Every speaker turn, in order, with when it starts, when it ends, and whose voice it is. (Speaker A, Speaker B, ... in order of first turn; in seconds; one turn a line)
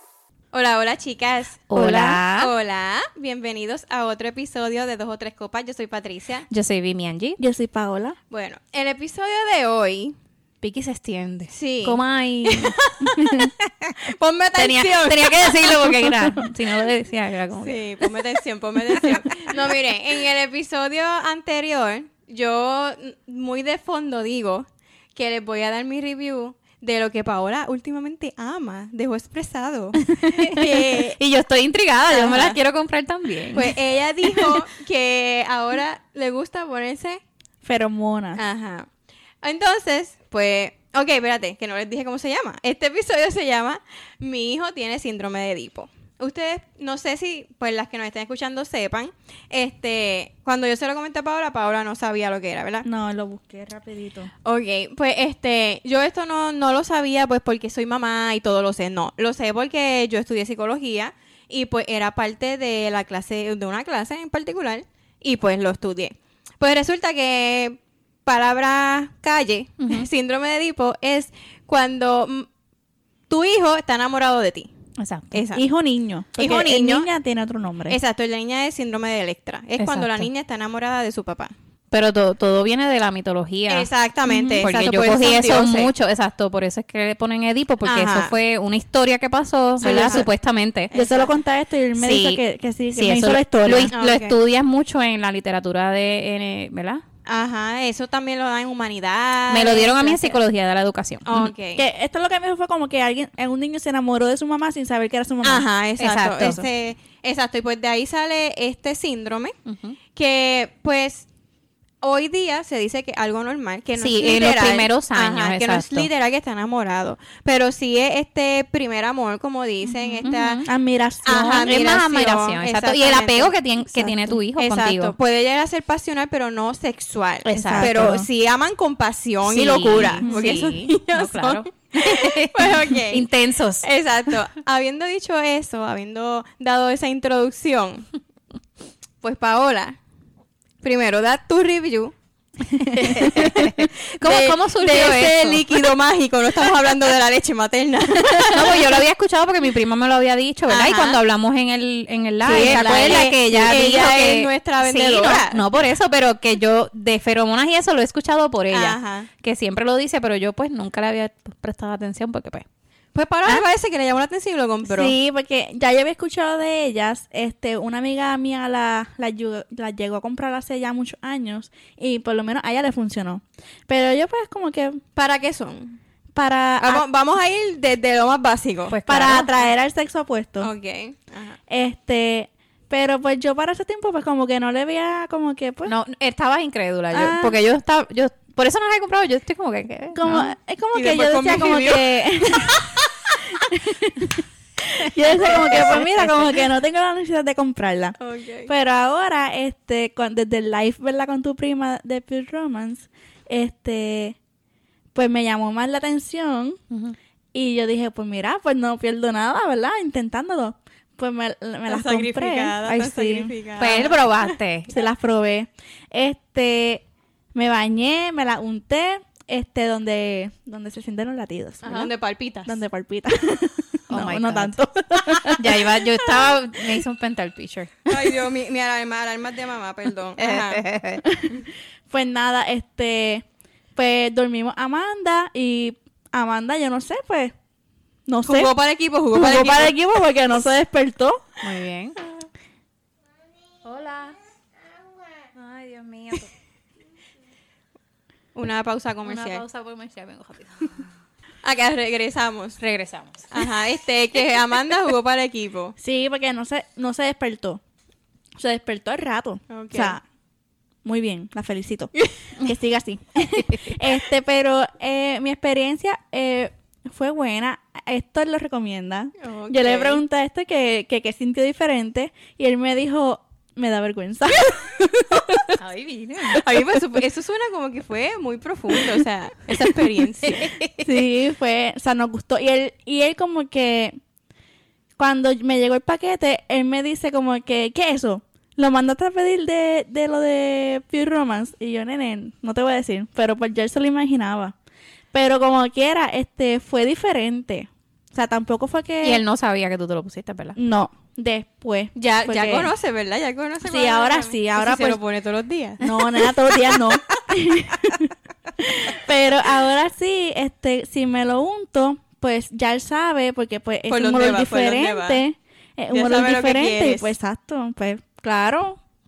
Speaker A: 0.5-1.7
Speaker B: 1.7-2.5
Speaker C: 1.7-2.2
Speaker A: 2.3-6.5
Speaker B: 6.5-7.4
Speaker C: 7.4-8.2
Speaker A: 8.3-10.2
Speaker B: 10.6-12.8
Speaker A: 11.5-13.4
Speaker C: 13.2-13.5
Speaker A: 14.0-16.2
Speaker B: 14.6-18.1
Speaker A: 17.6-31.2
Speaker B: 30.1-33.8
Speaker A: 32.1-32.6
Speaker A: 33.5-37.2
Speaker C: 37.6-38.4
Speaker A: 38.4-38.9
Speaker A: 39.4-52.9
Speaker C: 52.8-54.3
Speaker A: 54.5-72.5
Speaker B: 69.8-70.1
Speaker A: 73.3-74.7
Speaker B: 75.0-75.4
Speaker A: 75.3-75.7
Speaker C: 75.5-78.0
Speaker A: 76.4-77.1
Speaker A: 77.9-81.5
Speaker B: 79.8-80.3
Speaker B: 81.9-83.9
Speaker A: 83.7-85.9
Speaker C: 84.3-84.7
Speaker B: 84.6-90.9
Speaker A: 87.8-88.3
Speaker A: 89.8-90.3
Speaker C: 89.8-90.3
Speaker A: 90.9-91.3
Speaker C: 90.9-93.9
Speaker B: 92.0-92.4
Speaker B: 92.9-97.0
Speaker A: 93.9-94.4
Speaker A: 97.3-100.4
Speaker B: 99.5-101.5
Speaker A: 101.2-101.8
Speaker C: 101.8-105.7
Speaker A: 105.4-109.6
Speaker B: 106.0-106.6
Speaker C: 106.4-106.6
Speaker B: 109.7-110.0
Speaker A: 110.2-111.3
Speaker A: 112.0-120.6
Speaker B: 114.0-116.1
Speaker C: 120.0-121.9
Speaker B: 120.2-120.7
Speaker A: 121.2-123.6
Speaker B: 121.3-125.2
Speaker C: 123.9-124.3
Speaker A: 124.6-133.3
Speaker C: 127.5-128.3
Speaker B: 127.5-128.2
Speaker B: 129.5-133.9
Speaker C: 130.0-130.8
Speaker A: 133.8-138.1
Speaker A: 139.2-140.0
Speaker A: 140.8-142.1
Speaker C: 142.8-143.7
Speaker A: 142.8-149.0
Speaker B: 142.9-145.7
Speaker B: 148.4-162.7
Speaker A: 150.7-151.2
Speaker A: 152.4-155.6
Speaker C: 152.5-153.3
Speaker A: 158.7-159.3
Speaker A: 163.1-165.1
Speaker C: 164.8-175.0
Speaker A: 175.2-176.0
Speaker C: 176.3-177.0
Speaker A: 176.8-179.0
Speaker B: 178.9-179.5
Speaker C: 179.1-180.7
Speaker A: 180.6-181.6
Speaker C: 181.7-185.9
Speaker B: 185.9-190.5
Speaker C: 187.1-187.6
Speaker C: 190.2-192.9
Speaker A: 190.9-193.0
Speaker C: 193.6-204.4
Speaker B: 195.4-196.6
Speaker A: 195.4-195.8
Speaker A: 198.2-198.7
Speaker C: 205.2-206.8
Speaker B: 206.9-207.2
Speaker C: 207.5-213.9
Speaker A: 211.9-214.6
Speaker B: 213.8-214.9
Speaker C: 214.9-222.1
Speaker A: 221.8-222.8
Speaker C: 222.7-225.9
Speaker B: 224.1-224.8
Speaker B: 225.4-228.3
Speaker A: 228.1-230.8
Speaker B: 230.4-231.2
Speaker C: 231.2-233.4
Speaker C: 234.0-237.5
Speaker C: 238.3-238.7
Speaker A: 238.4-239.9
Speaker C: 239.3-241.4
Speaker B: 241.6-242.2
Speaker B: 243.8-244.4
Speaker B: 245.6-246.5
Speaker A: 248.6-249.6
Speaker B: 249.2-251.1
Speaker A: 251.6-252.8
Speaker B: 252.8-253.5
Speaker A: 253.5-255.9
Speaker C: 256.0-257.8
Speaker C: 258.6-260.2
Speaker A: 259.7-260.2
Speaker C: 261.0-275.8
Speaker A: 269.4-270.2
Speaker B: 275.8-276.8
Speaker A: 276.5-280.7
Speaker B: 280.4-281.1
Speaker C: 281.0-284.2
Speaker C: 285.2-294.8
Speaker C: 295.3-299.4
Speaker B: 299.2-300.8
Speaker C: 300.8-302.9
Speaker A: 302.2-306.0
Speaker C: 303.9-305.2
Speaker C: 306.0-319.0
Speaker A: 314.1-315.4
Speaker A: 316.1-317.4